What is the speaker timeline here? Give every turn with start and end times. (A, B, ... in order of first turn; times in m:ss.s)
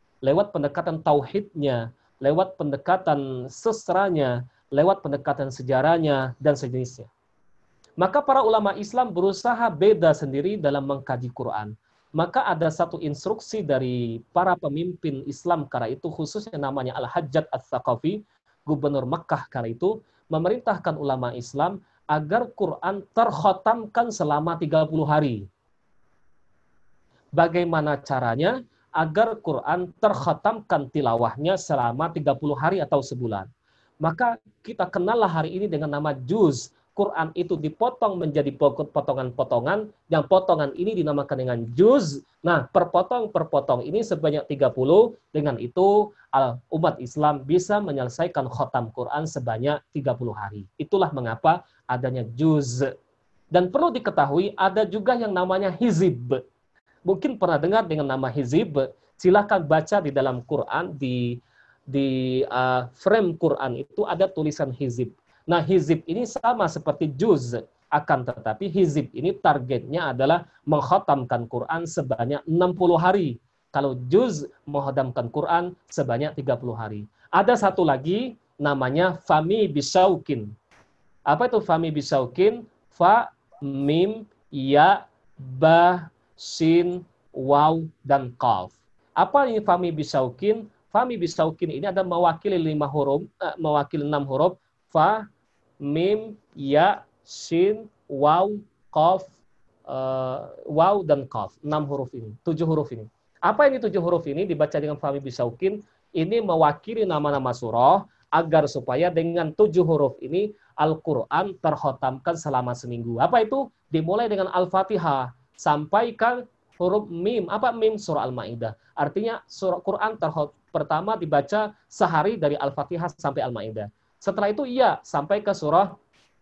0:00.2-0:07.1 A
0:08.0-0:25.4 A
0:27.4-0:33.5 A
0:34.0-0:52.9 A
0:53.5-0:56.4 A
0:57.0-1:01.4 A
1:01.9-1:20.5 A
1:21.3-1:35.2 A
1:35.8-1:39.3 A
1:39.9-2:05.9 A